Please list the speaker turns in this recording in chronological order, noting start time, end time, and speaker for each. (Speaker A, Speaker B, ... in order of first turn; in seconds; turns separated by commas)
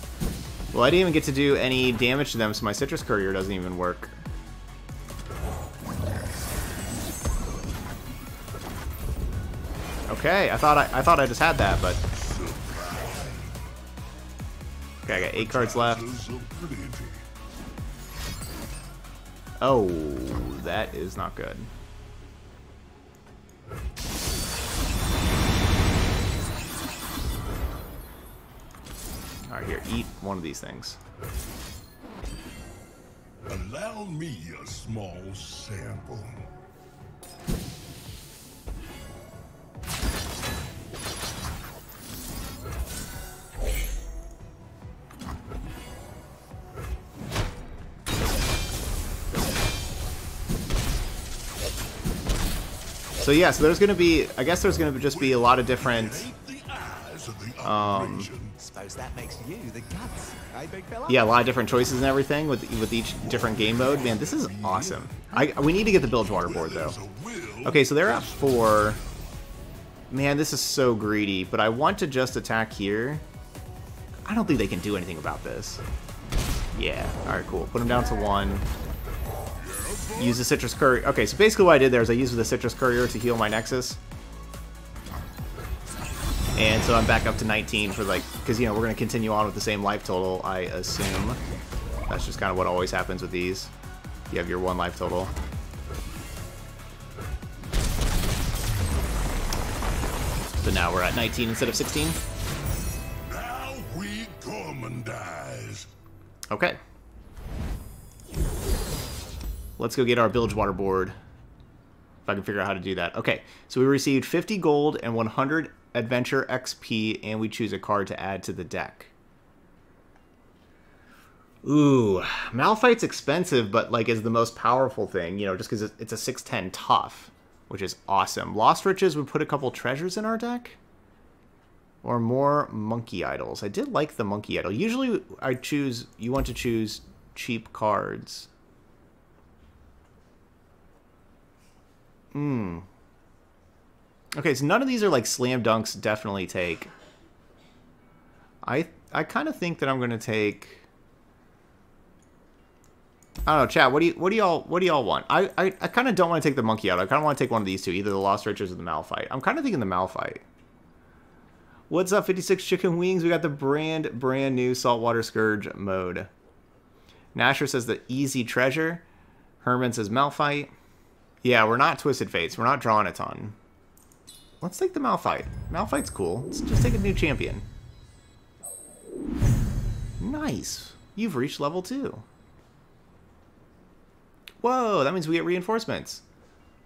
Speaker A: 0.7-4.2, Speaker A: 10.1-12.0, Speaker B: 12.1-13.8, Speaker A: 15.1-16.0, Speaker B: 15.1-17.3, Speaker A: 19.6-21.7, Speaker A: 29.5-31.0, Speaker B: 33.5-36.5, Speaker A: 53.2-56.3, Speaker B: 55.0-58.6, Speaker A: 57.6-58.3, Speaker C: 58.6-61.4, Speaker A: 61.1-67.0, Speaker B: 63.1-69.3, Speaker A: 67.7-69.0, Speaker A: 70.1-73.2, Speaker A: 74.2-75.8, Speaker A: 76.8-78.7, Speaker B: 79.5-80.5, Speaker A: 80.2-84.0, Speaker A: 86.6-91.4, Speaker A: 92.1-93.7, Speaker A: 94.3-95.3, Speaker A: 100.6-102.2, Speaker B: 103.3-105.9, Speaker A: 106.5-106.8, Speaker A: 109.8-111.2, Speaker A: 112.3-119.1, Speaker A: 121.6-130.8, Speaker A: 132.0-138.5, Speaker A: 142.3-142.9, Speaker A: 144.3-146.9, Speaker A: 148.6-150.8, Speaker A: 153.5-160.4, Speaker A: 161.9-166.3, Speaker A: 167.3-169.0, Speaker A: 169.6-170.7, Speaker A: 171.4-173.6, Speaker A: 174.6-177.7, Speaker A: 180.2-182.2, Speaker A: 184.6-186.2